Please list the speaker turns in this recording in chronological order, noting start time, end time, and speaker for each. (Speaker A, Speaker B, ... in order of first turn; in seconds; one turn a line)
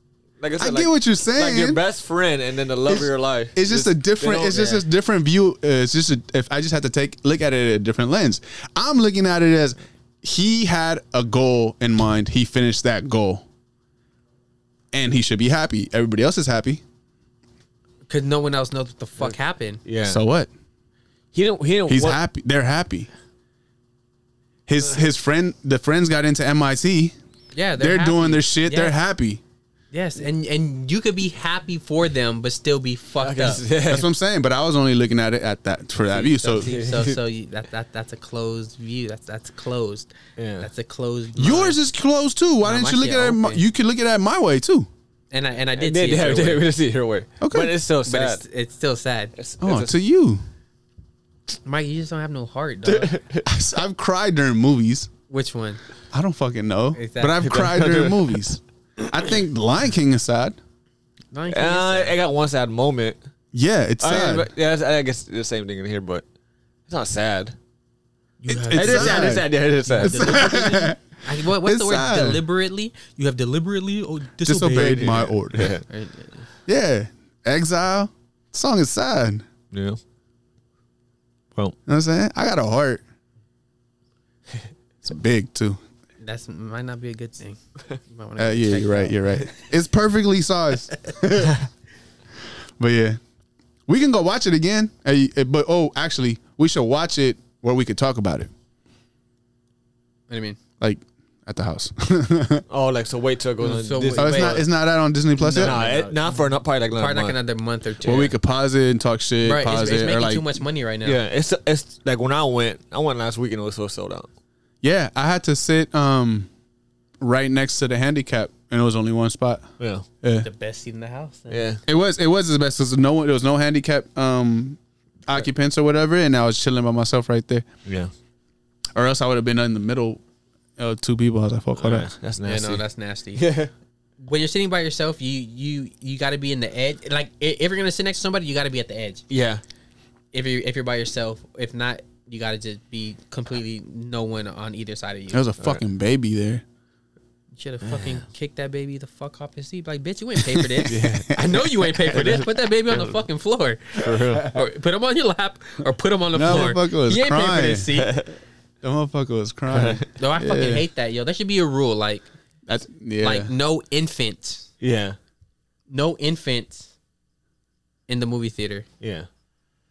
Speaker A: 0.4-4.8
Speaker B: 0.6-1.8
Speaker B: 2.9-13.4
Speaker B: 14.9-16.8
Speaker C: 18.1-19.8
Speaker A: 19.9-20.2
Speaker B: 20.0-20.5
Speaker A: 21.3-22.2
Speaker B: 21.9-23.1
Speaker B: 24.7-27.1
Speaker C: 27.5-29.0
Speaker B: 27.8-29.4
Speaker C: 29.9-33.6
Speaker A: 33.2-34.1
Speaker B: 33.9-36.7
Speaker C: 36.1-41.8
Speaker A: 36.6-37.2
Speaker A: 40.4-40.7
Speaker B: 41.4-44.9
Speaker C: 42.6-43.6
Speaker C: 45.3-46.7
Speaker A: 45.8-48.4
Speaker B: 47.4-47.7
Speaker C: 48.1-49.3
Speaker A: 49.4-50.0
Speaker B: 49.6-50.4
Speaker C: 51.6-53.1
Speaker A: 52.9-53.5
Speaker B: 53.5-55.1
Speaker C: 55.3-55.8
Speaker B: 56.1-60.6
Speaker C: 57.0-57.4
Speaker A: 57.4-58.4
Speaker C: 61.3-62.2
Speaker A: 61.5-63.2
Speaker B: 63.5-64.5
Speaker A: 64.0-66.2
Speaker A: 66.9-67.5
Speaker C: 68.4-75.3
Speaker B: 68.5-69.5
Speaker A: 68.7-70.5
Speaker B: 70.0-71.0
Speaker B: 71.6-72.4
Speaker B: 74.4-75.8
Speaker A: 74.7-75.8
Speaker C: 75.9-76.4
Speaker B: 76.7-79.5
Speaker A: 79.7-80.0
Speaker B: 81.9-83.0
Speaker B: 85.0-85.8
Speaker C: 86.2-89.5
Speaker B: 88.4-91.6
Speaker B: 92.8-93.2
Speaker B: 93.9-98.5
Speaker C: 100.3-100.6
Speaker B: 100.8-102.7
Speaker A: 102.7-104.7
Speaker C: 103.6-104.6
Speaker B: 104.2-105.8
Speaker C: 105.4-106.4
Speaker A: 105.5-107.4
Speaker C: 107.0-108.3
Speaker B: 108.0-110.6
Speaker C: 109.4-111.2
Speaker A: 111.0-114.3
Speaker B: 114.8-116.5
Speaker B: 117.2-119.7
Speaker A: 119.8-120.0
Speaker B: 120.2-120.5
Speaker C: 120.4-121.7
Speaker A: 121.5-121.8
Speaker B: 121.9-127.7
Speaker A: 127.9-128.1
Speaker B: 128.9-130.2
Speaker B: 130.8-132.1
Speaker A: 131.8-132.8
Speaker C: 132.4-133.4
Speaker A: 133.4-133.7
Speaker C: 134.2-139.2
Speaker A: 139.3-139.6
Speaker C: 140.3-145.4
Speaker B: 145.3-146.6
Speaker C: 147.6-158.2
Speaker A: 147.9-148.1
Speaker B: 150.5-151.7
Speaker A: 150.9-151.5
Speaker A: 152.1-153.2
Speaker A: 154.0-154.6
Speaker B: 156.3-157.9
Speaker A: 157.9-158.3
Speaker B: 158.8-160.8
Speaker A: 159.7-160.1
Speaker C: 160.2-162.3
Speaker B: 162.7-163.5
Speaker C: 163.2-164.7
Speaker A: 164.8-165.2
Speaker C: 165.9-166.9
Speaker C: 168.1-168.8
Speaker A: 169.0-169.3